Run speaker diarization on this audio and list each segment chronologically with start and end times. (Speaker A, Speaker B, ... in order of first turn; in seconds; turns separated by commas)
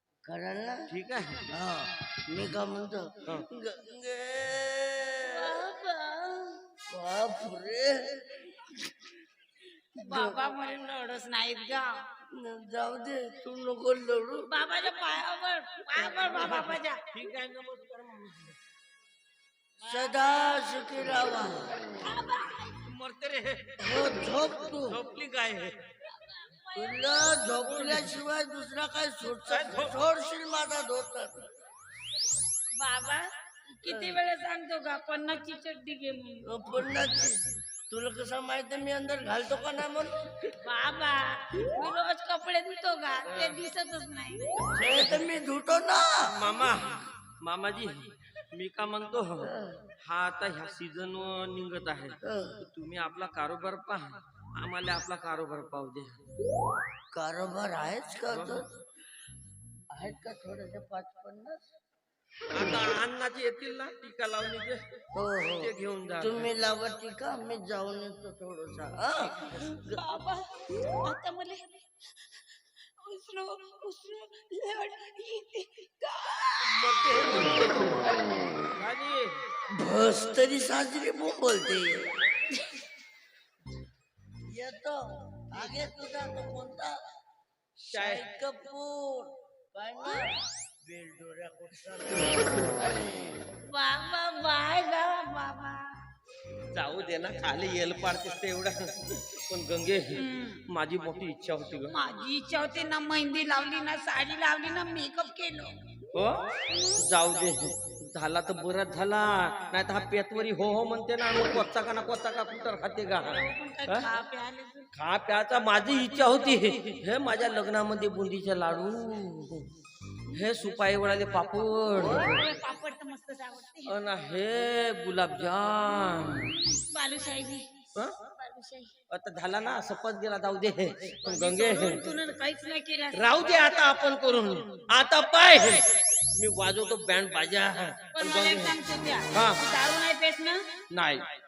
Speaker A: 0.2-0.9, Speaker B: 0.9-1.4, Speaker A: 1.5-5.6, Speaker C: 5.3-6.7, Speaker A: 6.9-9.1, Speaker C: 9.9-12.0, Speaker A: 10.0-10.4, Speaker A: 12.3-14.5, Speaker C: 14.5-17.0, Speaker B: 16.1-18.6, Speaker C: 19.8-20.6, Speaker A: 19.9-21.8, Speaker C: 22.0-22.8, Speaker B: 22.8-23.8, Speaker A: 23.8-25.0, Speaker B: 24.9-25.8, Speaker C: 26.1-28.0, Speaker A: 26.8-31.5, Speaker B: 29.5-30.0, Speaker C: 32.8-36.5, Speaker A: 36.5-40.1, Speaker C: 40.6-44.5, Speaker B: 43.3-43.6, Speaker B: 44.8-45.3, Speaker A: 44.8-46.4, Speaker B: 46.3-56.2, Speaker A: 49.4-49.9, Speaker A: 52.2-52.6, Speaker A: 57.1-58.7, Speaker B: 58.3-58.6, Speaker A: 59.9-61.6, Speaker B: 62.5-64.8, Speaker A: 65.2-70.0, Speaker B: 65.6-66.5, Speaker C: 69.7-72.4, Speaker C: 73.0-77.5, Speaker B: 76.6-78.1, Speaker B: 78.7-79.4, Speaker A: 79.7-82.1, Speaker A: 84.5-87.0, Speaker A: 87.9-93.0, Speaker B: 87.9-88.2, Speaker C: 93.6-96.0, Speaker B: 96.7-101.9, Speaker C: 100.2-100.7, Speaker C: 101.9-105.8, Speaker B: 106.1-114.1, Speaker C: 113.2-114.9, Speaker B: 114.9-119.7, Speaker B: 120.3-122.4, Speaker C: 122.0-124.0, Speaker B: 123.9-126.6, Speaker C: 126.7-128.9, Speaker B: 129.1-132.0, Speaker C: 131.2-134.1, Speaker B: 133.1-138.8, Speaker C: 138.2-140.6, Speaker B: 139.3-139.6, Speaker B: 140.9-141.3